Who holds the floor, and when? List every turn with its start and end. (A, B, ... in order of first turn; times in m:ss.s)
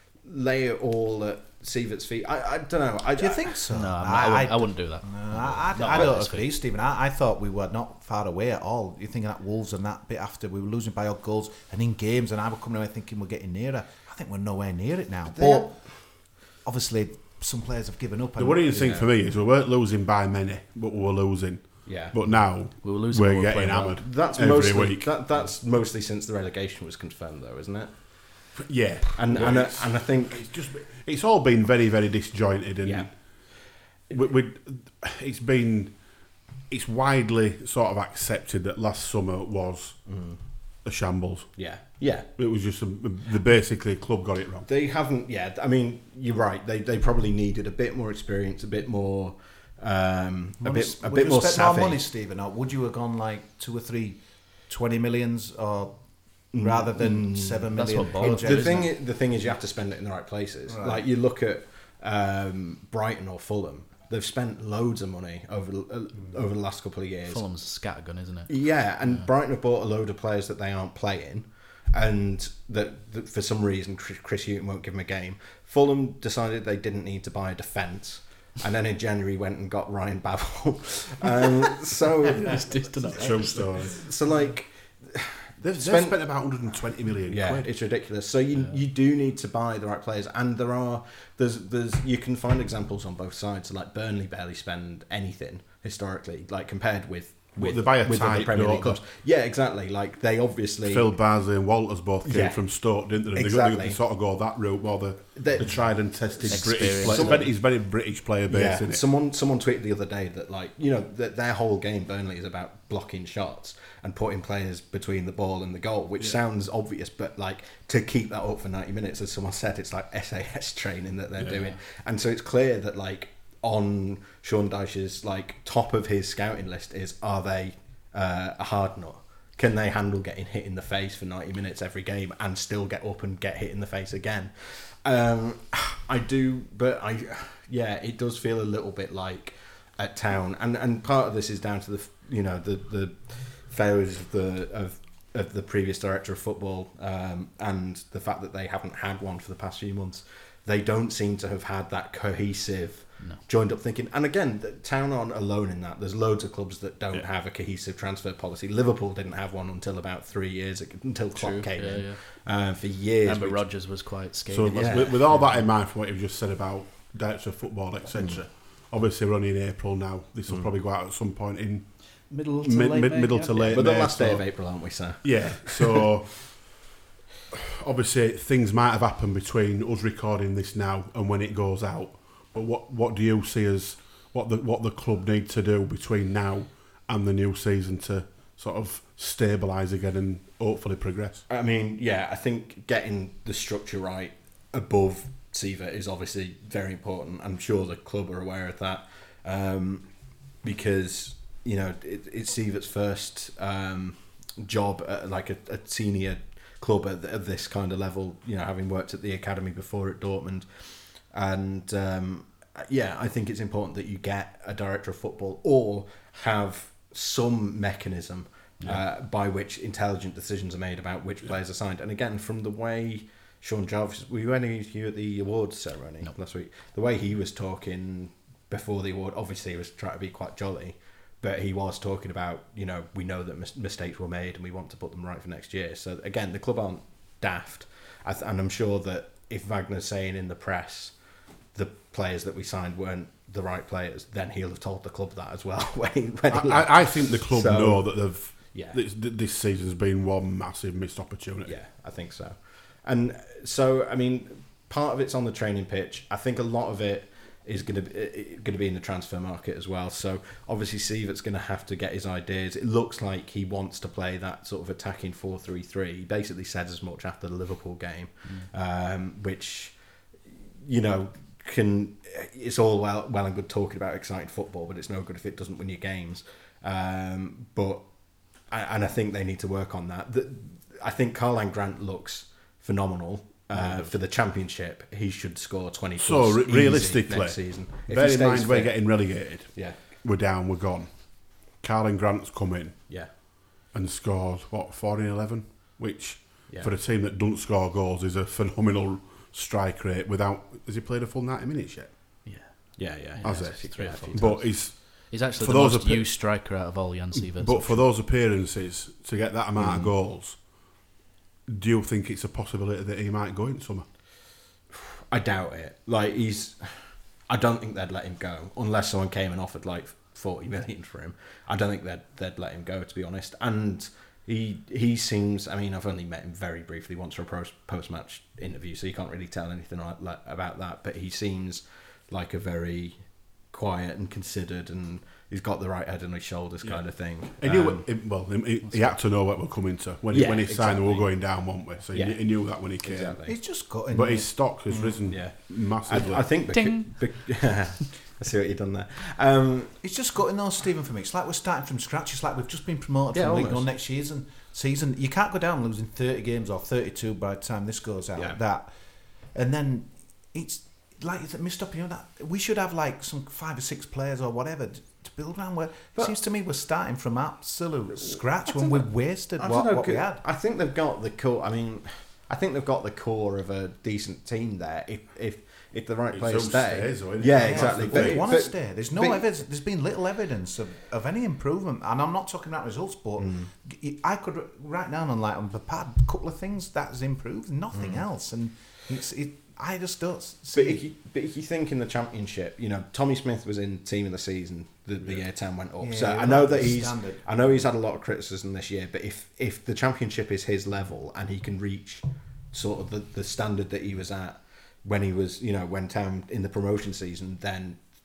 0:00.2-0:03.7 A
0:03.2-0:18.7 B
0:03.7-0:06.5 C
0:15.3-0:15.7 A
0:18.4-0:25.5 D
0:18.7-0:19.1 A
0:21.9-0:22.2 A
0:22.2-0:24.0 C
0:24.0-0:28.5 A
0:28.6-0:44.7 D
0:29.2-0:30.4 A
0:32.8-0:34.1 A
0:40.0-0:40.4 A
0:41.6-0:42.3 A
0:44.7-0:52.0 A
0:50.6-0:59.0 B
0:56.5-1:07.4 A
0:57.7-0:58.9 C
1:00.7-1:01.0 B
1:07.3-1:09.3 C
1:08.5-1:22.5 A
1:22.4-1:24.0 C
1:23.1-1:24.1 D
1:23.9-1:26.5 A
1:25.6-1:27.7 D
1:27.3-1:41.1 A
1:37.6-1:39.0 D
1:40.9-1:49.0 D
1:42.2-1:44.0 A
1:45.3-1:47.7 A
1:46.5-1:47.5 C
1:48.5-2:43.9 A
2:01.4-2:01.7 D
2:41.3-2:42.6 C
2:43.2-2:45.7 C
2:44.5-2:56.8 D
2:44.8-2:45.3 A
2:48.1-2:48.4 A
2:52.3-2:53.8 C
2:53.7-2:56.0 A
2:57.8-3:11.4 D
3:11.5-4:01.2 A
4:01.7-4:09.0 A
4:06.5-4:11.8 D
4:11.6-4:50.0 A
4:28.4-4:28.7 C
4:43.7-4:44.2 D
4:46.2-5:02.1 D
5:02.4-5:08.0 C
5:03.0-5:04.7 A
5:03.4-5:06.6 D
5:07.3-5:11.1 D
5:09.8-5:10.1 C
5:11.7-5:14.1 D
5:14.9-5:38.1 A
5:36.8-5:43.4 D
5:38.9-5:39.2 C
5:40.3-5:43.6 A
5:43.4-5:45.2 B
5:44.1-5:46.4 D
5:45.3-5:50.0 A
5:46.7-5:47.8 C
5:50.0-6:10.4 B
5:53.3-5:53.9 A
6:08.2-6:19.5 A
6:16.3-6:18.4 D
6:17.5-6:31.0 B
6:23.4-6:23.7 A
6:27.9-6:28.2 A
6:30.7-6:48.0 A
6:36.0-6:37.4 B